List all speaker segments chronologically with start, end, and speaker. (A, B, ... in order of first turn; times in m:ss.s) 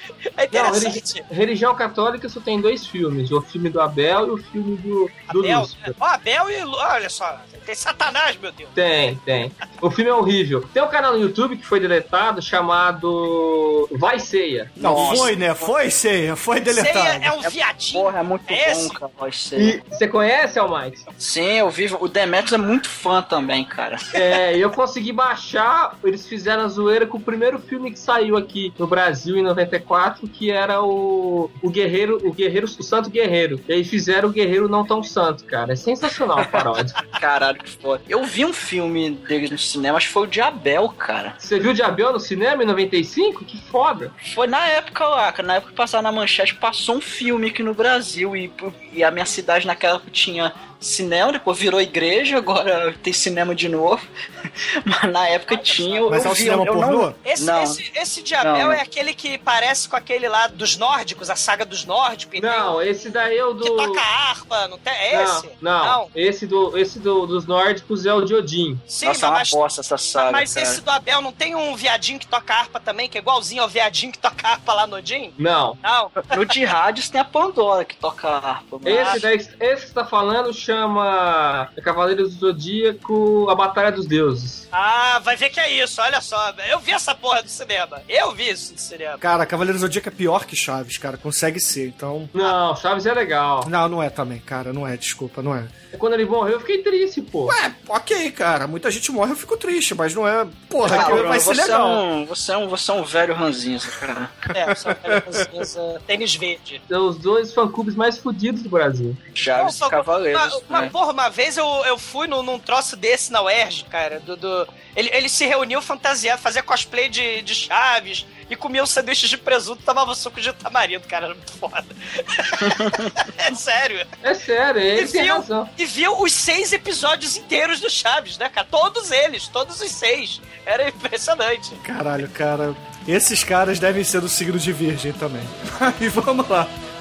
0:00.3-0:01.2 A
0:00.5-0:05.9 B
0:05.3-0:08.7 A
0:08.7-0:14.9 B
0:14.8-0:17.4 C
0:14.8-0:15.7 D
0:16.7-0:19.0 A
0:17.4-0:19.8 D
0:19.6-0:21.0 B
0:21.2-0:24.1 D
0:24.1-0:37.0 B
0:37.1-0:41.3 D
0:41.4-0:44.1 B
0:44.2-0:54.0 D
0:54.8-0:57.8 D
0:55.5-0:56.4 A
0:56.1-0:57.2 C
0:57.2-1:02.7 A
0:58.4-0:58.8 D
1:02.4-1:04.0 B
1:03.6-1:06.1 A
1:05.1-1:08.8 B
1:08.9-1:16.6 A
1:09.0-1:10.8 D
1:15.4-1:15.8 B
1:16.3-1:19.3 D
1:18.8-1:24.6 B
1:18.9-1:19.2 A
1:24.7-1:29.2 A
1:29.2-1:32.3 C
1:32.3-1:33.7 B
1:33.6-1:35.7 C
1:35.9-1:37.6 B
1:37.5-1:42.0 C
1:40.8-1:44.5 D
1:44.5-1:46.8 A
1:44.9-1:45.3 C
1:46.9-1:49.2 B
1:49.3-1:50.9 D
1:49.5-2:04.1 A
2:02.6-2:03.1 D
2:04.2-2:05.7 B
2:04.9-2:11.8 A
2:11.8-2:16.7 C